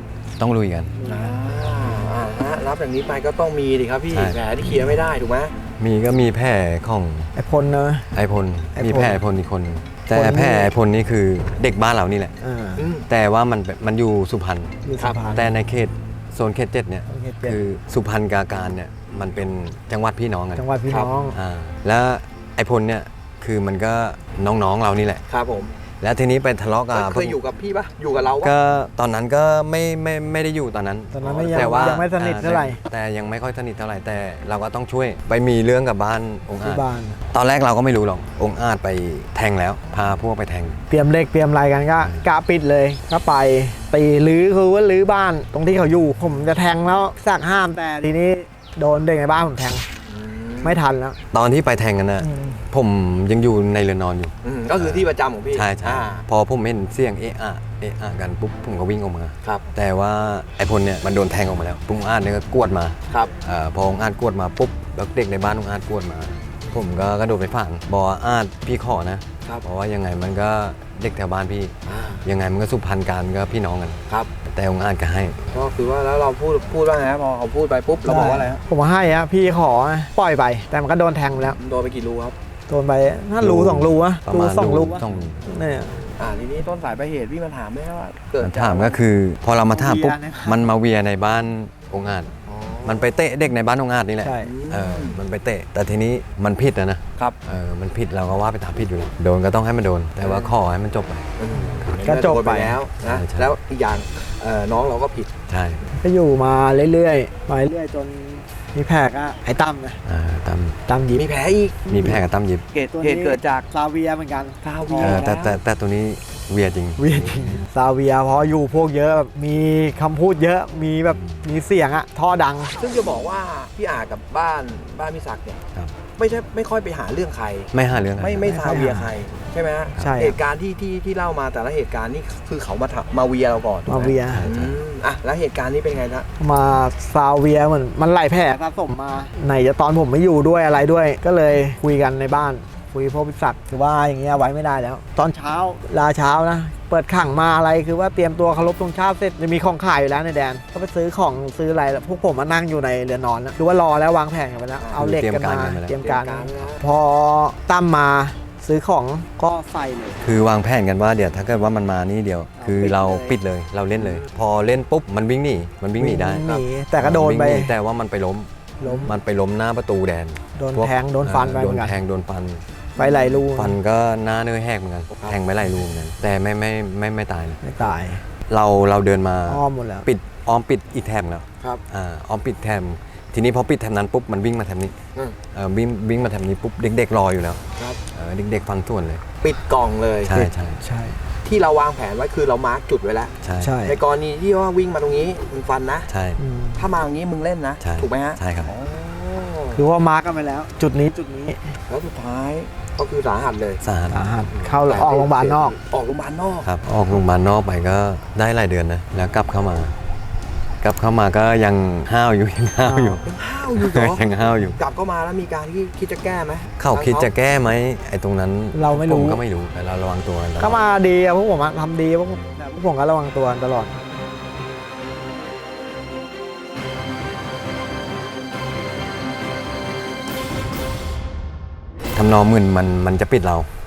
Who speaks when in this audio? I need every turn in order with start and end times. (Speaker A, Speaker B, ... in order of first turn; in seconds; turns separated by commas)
Speaker A: 0.4-0.9, Speaker B: 1.0-1.3, Speaker C: 1.1-5.5, Speaker A: 4.1-4.4, Speaker A: 5.8-7.3, Speaker B: 7.4-8.1, Speaker A: 8.1-12.3, Speaker B: 8.8-9.2, Speaker B: 10.1-10.7, Speaker B: 12.4-12.9, Speaker C: 12.8-13.1, Speaker A: 13.1-14.8, Speaker B: 14.8-15.5, Speaker C: 15.0-15.2, Speaker A: 15.3-20.6, Speaker B: 17.1-17.6, Speaker B: 20.6-21.4, Speaker A: 21.3-25.2, Speaker C: 25.3-25.8, Speaker A: 26.0-27.4, Speaker C: 26.9-28.6, Speaker A: 28.4-40.8, Speaker B: 31.1-32.8, Speaker C: 31.2-32.0, Speaker B: 36.6-37.2, Speaker B: 40.9-49.9, Speaker C: 50.1-50.8, Speaker B: 50.6-51.2, Speaker A: 51.3-75.4, Speaker C: 54.4-56.2, Speaker C: 63.1-63.3, Speaker C: 71.9-72.2, Speaker C: 75.5-78.6, Speaker B: 78.1-81.6, Speaker C: 81.6-82.4, Speaker B: 82.7-86.0, Speaker A: 83.4-85.4, Speaker C: 86.2-89.0, Speaker A: 88.4-92.3, Speaker B: 89.7-90.6, Speaker C: 92.5-93.1, Speaker A: 92.8-102.0, Speaker B: 94.2-94.5, Speaker C: 94.4-95.2, Speaker C: 100.2-100.6, Speaker C: 101.4-105.4, Speaker B: 101.6-102.8, Speaker A: 103.0-103.5, Speaker A: 105.5-105.9, Speaker B: 106.0-110.0, Speaker A: 110.1-110.8, Speaker B: 110.9-111.3, Speaker C: 111.1-111.9, Speaker B: 111.9-112.2, Speaker A: 111.9-112.6, Speaker C: 112.7-113.7, Speaker B: 112.9-115.3, Speaker C: 114.6-115.6, Speaker A: 115.0-117.6, Speaker B: 117.0-122.7, Speaker C: 122.8-125.6, Speaker C: 126.2-136.3, Speaker A: 127.7-128.5, Speaker B: 128.3-129.1, Speaker B: 130.0-130.4, Speaker B: 133.9-134.4, Speaker A: 134.3-134.8, Speaker B: 136.4-160.2, Speaker C: 154.8-155.1, Speaker A: 155.0-156.0, Speaker C: 155.9-156.8, Speaker A: 160.2-172.6, Speaker B: 162.6-163.4, Speaker C: 164.0-164.3, Speaker B: 166.0-167.7, Speaker B: 168.8-169.2, Speaker B: 170.6-171.9, Speaker C: 173.0-173.3, Speaker B: 173.0-173.8, Speaker A: 173.4-177.7, Speaker C: 175.1-175.4, Speaker B: 177.6-178.2, Speaker A: 178.5-184.9, Speaker B: 179.5-180.1, Speaker A: 185.5-189.2, Speaker C: 189.4-190.5, Speaker A: 190.3-190.8, Speaker B: 190.8-191.2, Speaker C: 191.4-193.3, Speaker A: 193.4-193.8, Speaker B: 193.6-194.0, Speaker C: 193.8-196.1, Speaker A: 196.1-196.4, Speaker B: 196.4-196.8, Speaker C: 196.8-199.8, Speaker A: 197.8-198.8, Speaker B: 199.8-201.8, Speaker C: 201.9-203.8, Speaker A: 203.8-204.3, Speaker B: 204.1-205.8, Speaker C: 204.6-206.7, Speaker A: 206.6-209.9, Speaker A: 210.8-214.8, Speaker B: 212.8-213.2, Speaker C: 213.3-217.3, Speaker A: 216.8-220.8, Speaker B: 218.7-219.4, Speaker B: 220.6-223.9, Speaker A: 232.2-233.7